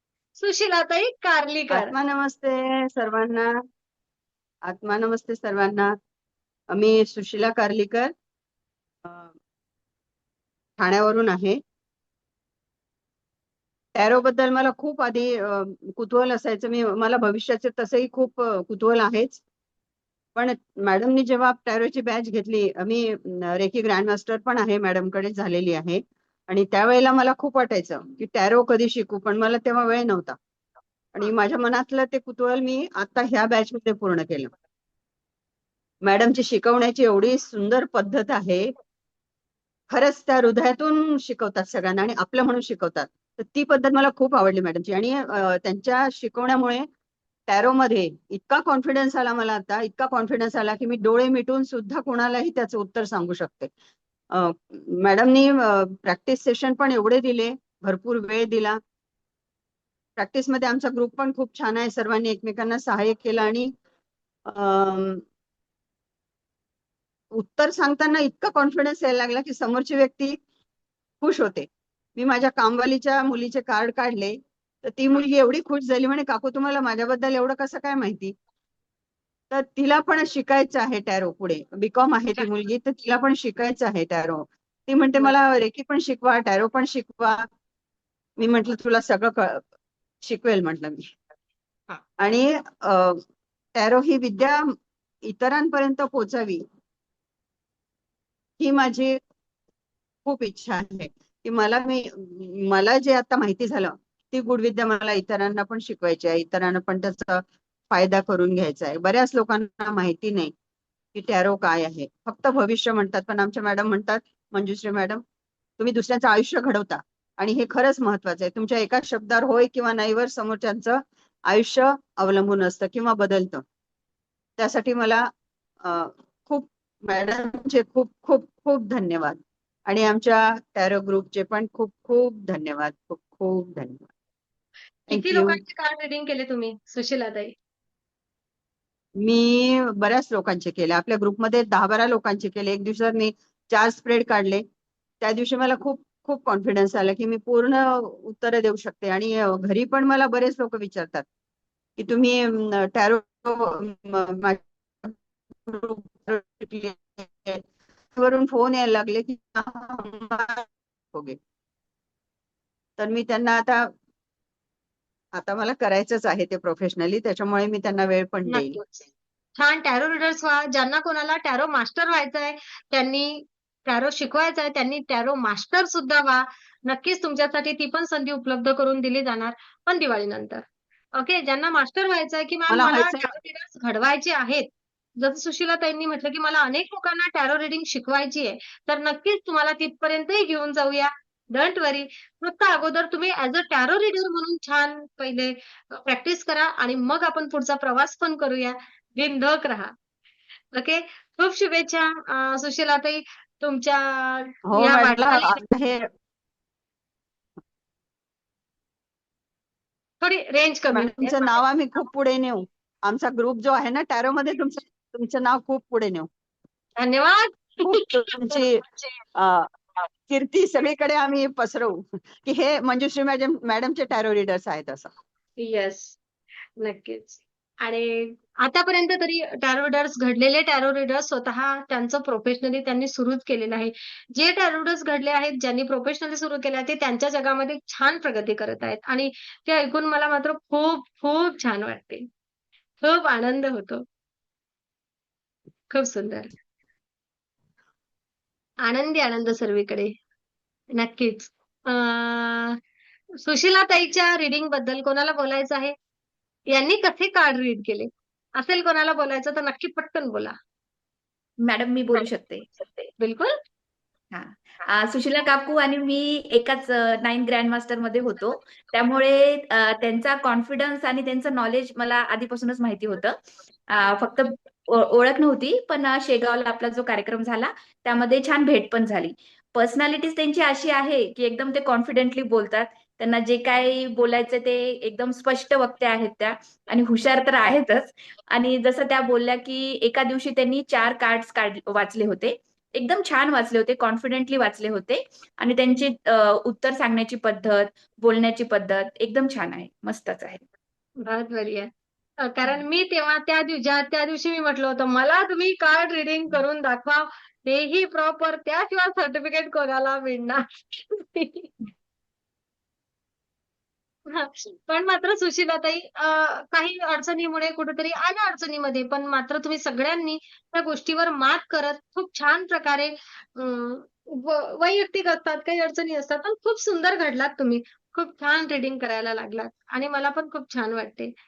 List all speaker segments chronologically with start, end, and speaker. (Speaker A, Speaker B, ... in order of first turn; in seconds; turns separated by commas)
Speaker A: 0.3-1.9, Speaker B: 1.7-3.5, Speaker B: 4.7-5.9, Speaker B: 6.7-8.1, Speaker B: 9.1-9.3, Speaker B: 10.8-11.6, Speaker B: 13.9-19.4, Speaker B: 20.4-30.4, Speaker B: 31.1-34.5, Speaker B: 36.0-38.7, Speaker B: 39.9-46.8, Speaker B: 47.5-53.7, Speaker B: 54.3-58.8, Speaker B: 60.2-63.7, Speaker B: 64.5-65.2, Speaker B: 67.3-70.4, Speaker B: 71.2-78.3, Speaker B: 79.5-87.4, Speaker B: 88.4-89.6, Speaker B: 90.2-91.0, Speaker B: 92.2-93.2, Speaker B: 93.7-94.6, Speaker B: 95.2-96.6, Speaker B: 98.6-99.2, Speaker B: 100.2-110.5, Speaker B: 111.1-115.2, Speaker B: 115.8-123.6, Speaker B: 124.6-125.2, Speaker B: 125.8-134.1, Speaker A: 135.1-137.5, Speaker B: 135.1-135.6, Speaker B: 139.2-144.6, Speaker B: 145.2-151.2, Speaker B: 152.0-157.6, Speaker B: 158.2-161.3, Speaker B: 163.0-163.9, Speaker B: 165.3-168.8, Speaker A: 168.5-180.6, Speaker A: 181.2-199.9, Speaker B: 182.7-183.3, Speaker A: 200.7-205.6, Speaker B: 204.7-206.0, Speaker A: 210.2-211.6, Speaker B: 210.9-216.3, Speaker A: 217.0-217.8, Speaker B: 217.8-218.8, Speaker A: 218.5-219.2, Speaker B: 219.3-219.7, Speaker B: 220.3-225.1, Speaker A: 225.6-226.2, Speaker A: 226.8-242.3, Speaker A: 243.0-244.0, Speaker A: 245.9-246.5, Speaker A: 248.8-250.1, Speaker A: 250.9-252.8, Speaker A: 253.4-255.9, Speaker A: 256.7-260.5, Speaker C: 261.6-263.1, Speaker A: 263.2-263.5, Speaker C: 264.3-273.4, Speaker C: 273.9-300.6, Speaker A: 301.2-301.9, Speaker A: 302.4-311.7, Speaker A: 314.3-331.3